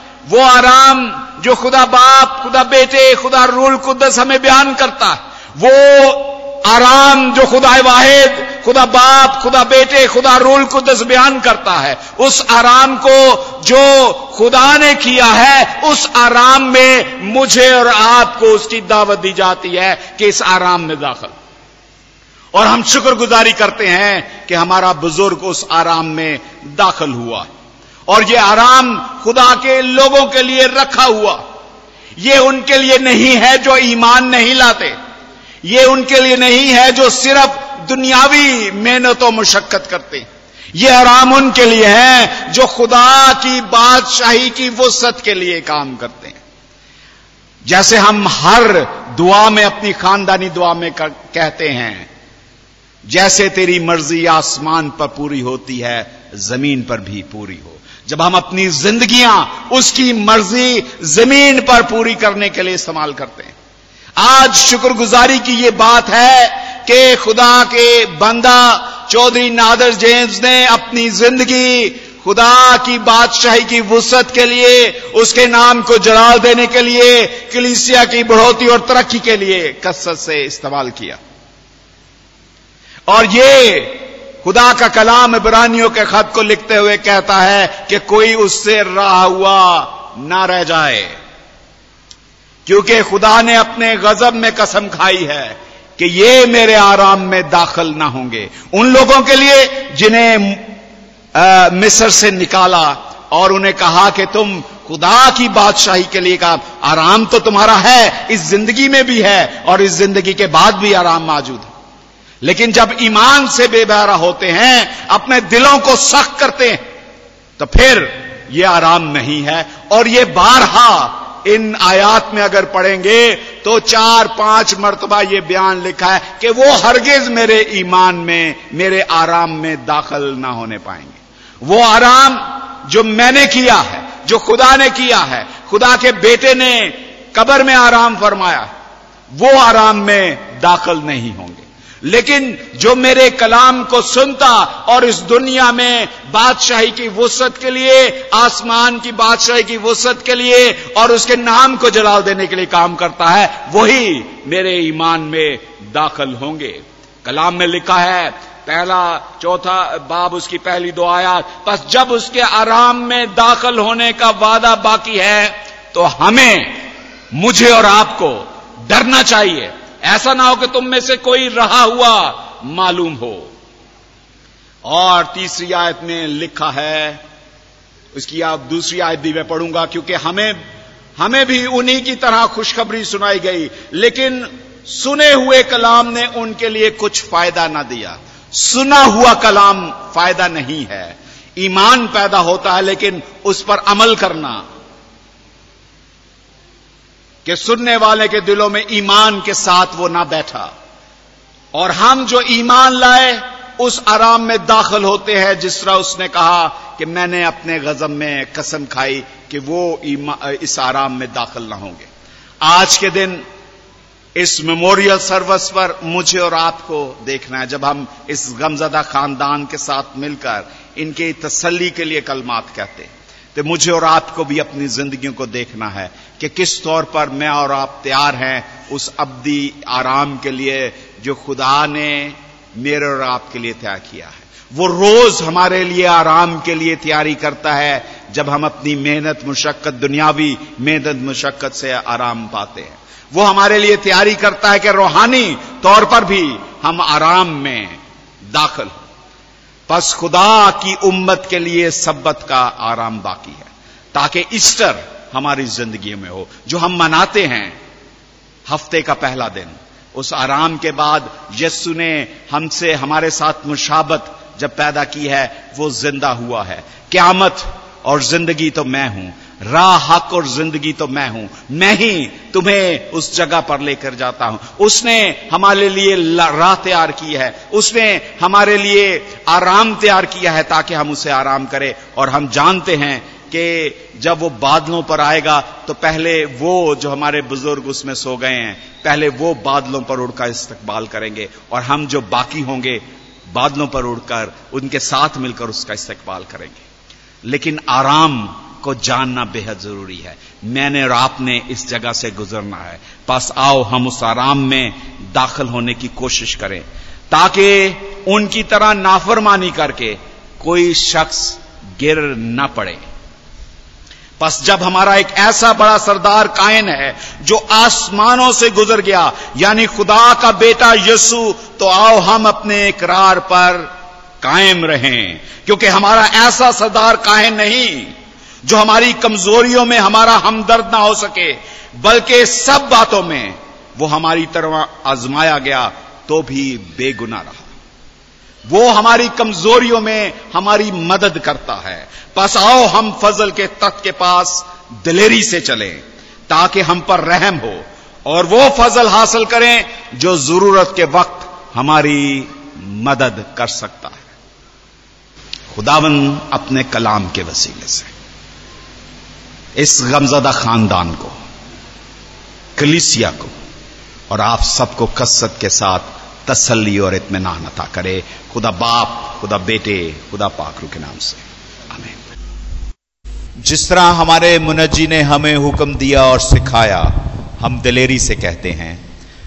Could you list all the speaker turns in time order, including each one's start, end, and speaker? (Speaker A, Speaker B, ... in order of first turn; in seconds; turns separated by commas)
Speaker A: 0.3-21.3, Speaker A: 22.5-27.5, Speaker A: 28.1-31.4, Speaker A: 32.2-35.0, Speaker A: 35.6-46.4, Speaker A: 47.6-52.1, Speaker A: 53.1-63.5, Speaker A: 64.2-81.2, Speaker A: 83.1-91.2, Speaker A: 92.7-100.7, Speaker A: 101.3-111.7, Speaker A: 112.4-116.8, Speaker A: 117.6-138.7, Speaker A: 139.3-166.8, Speaker A: 167.3-173.5, Speaker A: 174.8-177.2, Speaker A: 178.1-180.6, Speaker A: 181.2-194.6, Speaker A: 197.4-200.7, Speaker A: 201.7-212.1, Speaker A: 212.6-213.4, Speaker A: 214.4-248.0, Speaker A: 248.5-249.0, Speaker A: 249.9-257.8, Speaker A: 258.7-296.8, Speaker A: 297.4-313.0, Speaker A: 314.4-323.9, Speaker A: 324.4-337.7, Speaker A: 338.7-354.2, Speaker A: 355.7-358.1, Speaker A: 359.8-361.4, Speaker A: 362.8-363.5, Speaker A: 364.3-372.2, Speaker A: 373.6-379.0